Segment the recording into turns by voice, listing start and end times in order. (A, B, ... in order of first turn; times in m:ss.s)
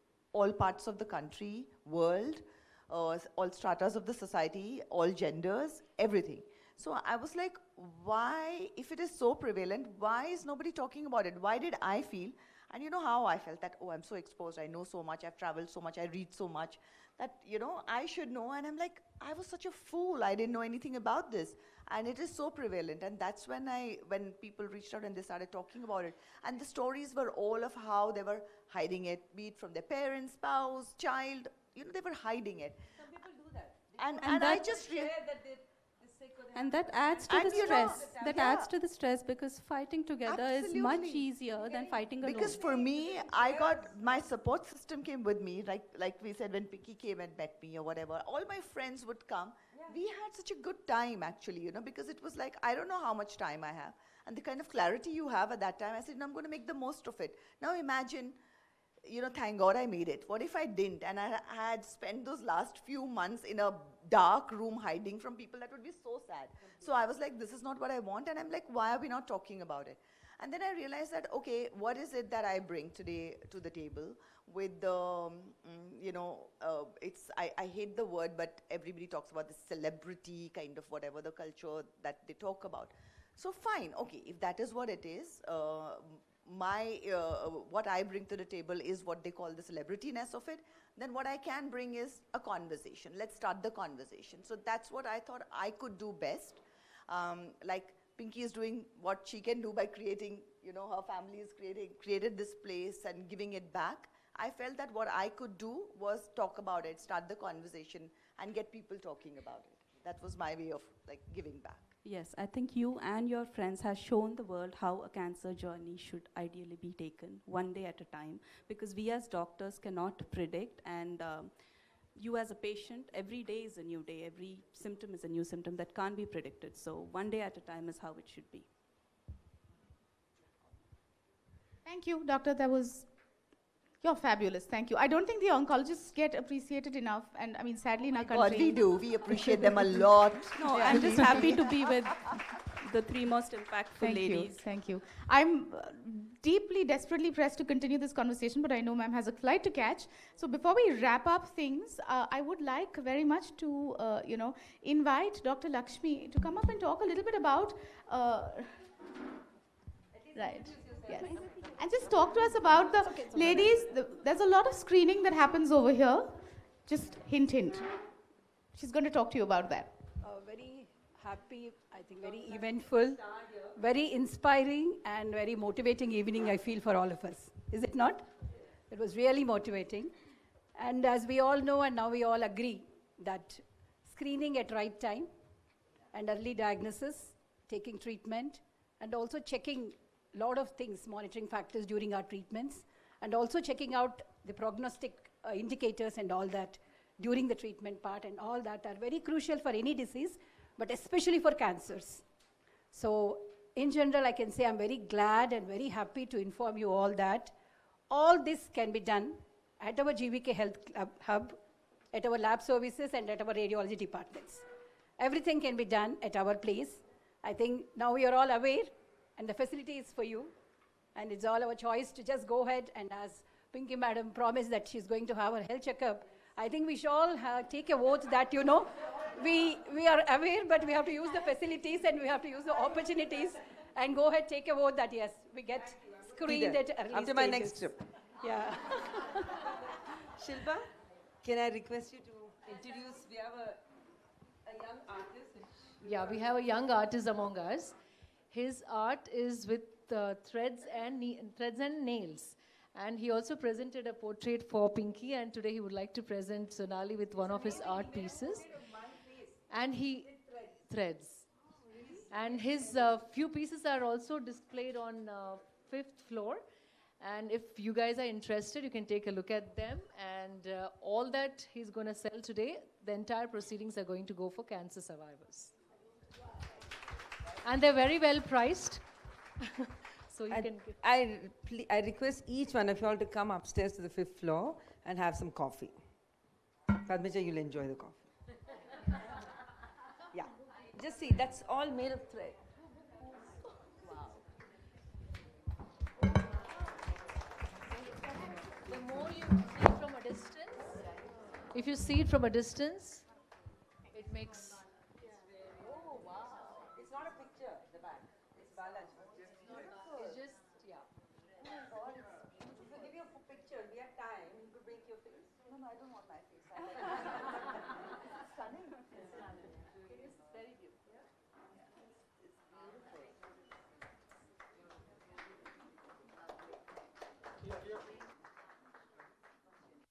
0:00.3-0:32.8 A
0:33.0-0:38.6 B
0:34.0-0:35.1 A
0:34.2-0:34.8 C
0:36.5-0:42.6 C
0:37.3-0:38.7 A
0:40.3-0:41.3 A
0:41.6-0:44.1 B
0:42.2-0:58.4 A
0:59.0-1:51.9 A
1:52.0-2:01.5 C
2:02.2-2:08.7 C
2:11.8-2:13.1 D
2:14.0-2:20.1 D
2:18.1-2:21.6 A
2:20.6-2:24.6 C
2:20.7-2:21.6 D
2:24.0-2:38.8 D
2:40.2-2:41.5 B
2:40.3-2:47.9 D
2:41.3-2:41.6 E
2:43.0-2:43.8 E
2:48.7-2:49.9 D
2:50.2-2:58.3 E
2:58.9-3:00.1 E
3:00.8-3:05.3 E
3:06.1-3:22.2 E
3:22.9-3:27.5 E
3:28.1-3:31.6 E
3:32.1-3:34.6 E
3:35.2-3:40.5 E
3:41.2-3:59.4 E
3:56.4-3:58.1 B
3:58.9-4:00.9 B
4:01.4-4:03.8 B
4:04.6-4:06.0 B
4:06.0-4:08.0 F
4:08.5-4:18.8 F
4:17.5-4:19.6 B
4:19.7-4:21.5 F
4:20.4-4:20.8 B
4:22.3-4:26.6 F
4:27.2-4:35.8 F
4:37.6-4:39.1 F
4:39.6-4:41.0 F
4:40.5-4:46.0 B
4:47.0-4:48.3 B
4:50.3-4:52.6 B
4:54.1-4:54.4 F
4:57.9-5:01.1 F
5:01.7-5:03.3 F
5:04.1-5:04.9 F
5:05.9-5:09.7 B
5:10.1-5:11.0 F
5:11.8-5:12.2 A
5:12.6-5:15.6 B
5:15.8-5:17.1 A
5:16.9-5:17.8 B
5:18.6-5:19.2 A
5:20.2-5:21.0 F